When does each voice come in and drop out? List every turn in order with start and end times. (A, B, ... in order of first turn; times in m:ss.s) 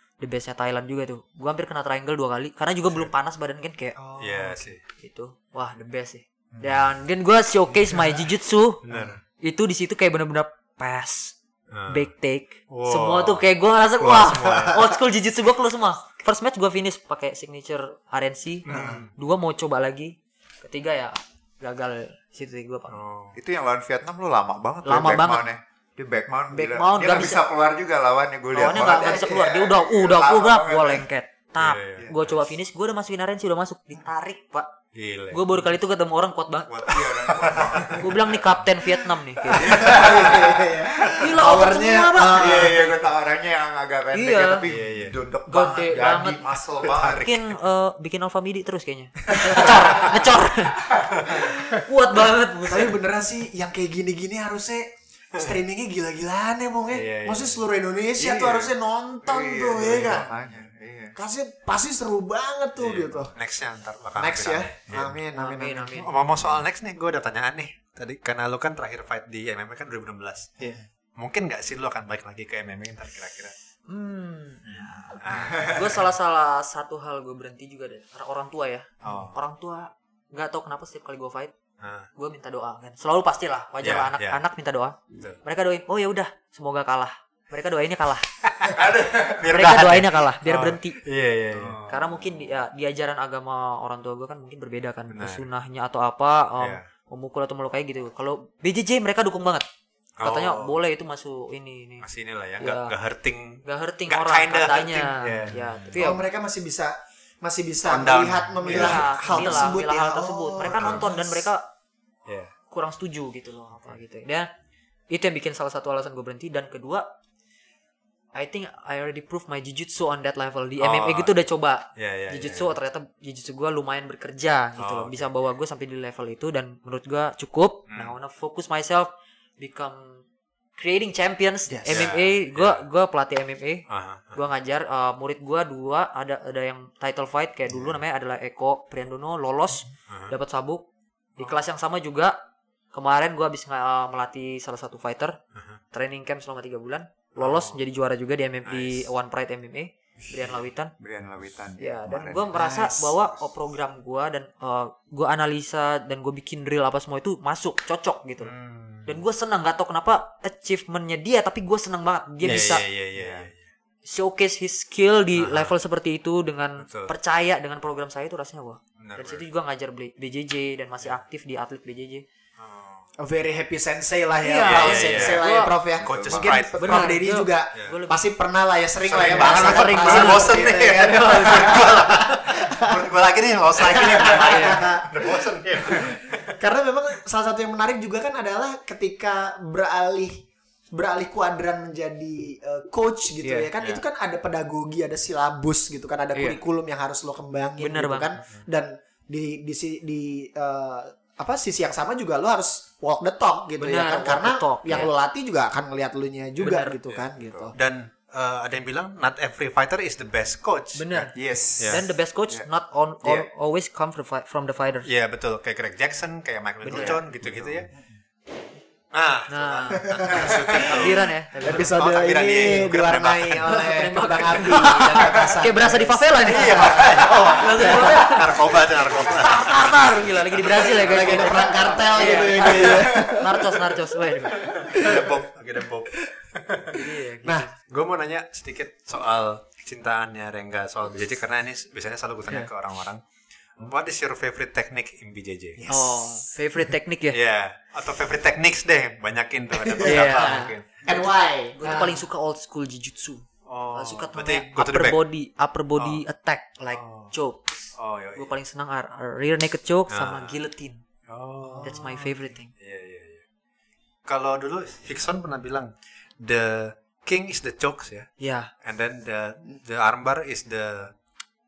0:00.2-0:04.0 A
0:04.0-0:04.7 B
0:04.2-0:04.8 C
0:05.0-0:08.8 A
0:06.5-0:06.9 D
0:08.8-0:09.2 C
0:09.4-0:11.4 A
0:11.7-0:12.1 C
0:11.9-0:23.0 A
0:12.7-0:14.9 C
0:18.6-0:19.1 C
0:18.7-0:19.0 B
0:22.9-0:23.4 C
0:23.3-0:31.0 D
0:24.8-0:25.4 A
0:26.5-0:27.4 A
0:28.5-0:34.7 A
0:31.6-0:32.1 C
0:34.9-0:35.4 C
0:35.3-0:37.4 A
0:36.7-0:38.4 D
0:37.2-0:38.0 C
0:37.9-0:40.0 A
0:39.5-0:42.8 B
0:39.5-0:47.3 D
0:41.2-0:42.9 A
0:44.1-0:44.7 A
0:44.6-0:45.2 C
0:45.5-0:52.9 A
0:46.8-0:47.5 C
0:52.6-1:00.3 B
0:56.9-0:57.6 C
0:58.2-0:58.7 D
0:59.2-1:01.1 D
1:00.1-1:00.7 C
1:01.2-1:03.3 B
1:02.8-1:05.2 C
1:04.2-1:06.0 B
1:05.4-1:06.1 A
1:06.0-1:13.5 C
1:13.9-1:21.5 A
1:14.7-1:16.0 C
1:15.3-1:15.8 D
1:19.0-1:19.3 C
1:21.8-1:22.1 C
1:22.1-1:28.3 A
1:23.8-1:24.4 C
1:28.4-1:32.1 C
1:28.7-1:29.5 D
1:29.4-1:31.0 A
1:31.6-1:39.6 A
1:35.1-1:35.4 C
1:36.6-1:36.8 C
1:40.2-1:40.7 C
1:40.2-1:42.0 A
1:42.0-1:45.9 C
1:42.6-1:42.9 A
1:43.6-1:46.2 A
1:45.9-1:51.4 B
1:47.8-1:49.6 C
1:48.6-1:51.6 A
1:52.2-1:52.5 C
1:52.7-1:54.5 A
1:55.1-1:57.1 A
1:58.3-2:10.2 A
2:00.8-2:01.3 C
2:02.0-2:02.7 C
2:04.8-2:05.3 C
2:10.8-2:20.8 A
2:11.7-2:12.1 B
2:11.8-2:12.8 C
2:13.9-2:14.4 C
2:20.1-2:20.3 C
2:21.4-2:22.4 A
2:22.9-2:25.4 A
2:25.9-2:30.9 A
2:27.4-2:27.8 C
2:28.6-2:29.1 C
2:31.0-2:33.4 D
2:31.8-2:38.5 A
2:38.4-2:39.2 C
2:39.0-2:42.8 A
2:42.4-2:43.6 C
2:43.1-2:43.5 D
2:44.0-2:52.2 A
2:45.4-2:45.7 C
2:46.8-2:47.1 C
2:49.0-2:49.4 C
2:52.6-2:53.1 C
2:53.2-3:03.1 B
2:54.4-2:55.7 A
2:54.6-2:55.4 C
2:56.0-2:56.6 D
2:56.0-2:57.2 C
2:56.8-2:58.2 A
2:59.0-3:06.6 C
2:59.2-3:01.8 A
3:03.8-3:27.7 B
3:04.4-3:04.8 A
3:13.4-3:13.7 A
3:16.3-3:16.6 A
3:17.8-3:18.4 A
3:23.8-3:25.1 A
3:26.6-3:27.0 A
3:27.1-3:31.3 C
3:27.4-3:27.7 D
3:31.0-3:31.3 A
3:31.3-3:32.7 D
3:31.8-3:32.0 C
3:31.8-3:35.1 A
3:35.0-3:37.9 C
3:36.9-3:37.2 A
3:36.9-3:37.9 D
3:39.1-3:43.9 C
3:39.5-3:41.9 A
3:40.1-3:48.2 B
3:43.6-3:48.6 A
3:44.5-3:45.5 C
3:46.4-3:51.7 C
3:49.2-3:54.7 A
3:50.8-3:53.8 B
3:52.8-3:53.3 D
3:54.5-3:57.0 C
3:54.8-3:55.4 B
3:56.9-3:57.7 A
3:57.4-3:57.7 B
3:57.9-4:03.2 C
4:03.8-4:05.8 C
4:05.8-4:06.5 B
4:05.9-4:07.4 A
4:07.3-4:11.2 C
4:09.9-4:12.2 B
4:10.0-4:10.7 A
4:11.8-4:21.0 A
4:13.6-4:15.2 C
4:16.0-4:16.2 C
4:16.9-4:17.3 C
4:17.9-4:18.5 C
4:20.1-4:20.6 C
4:21.3-4:22.2 C
4:21.7-4:22.0 B
4:21.8-4:22.7 A
4:22.8-4:23.4 C
4:24.2-4:28.3 C
4:28.4-4:28.7 A
4:28.8-4:31.1 C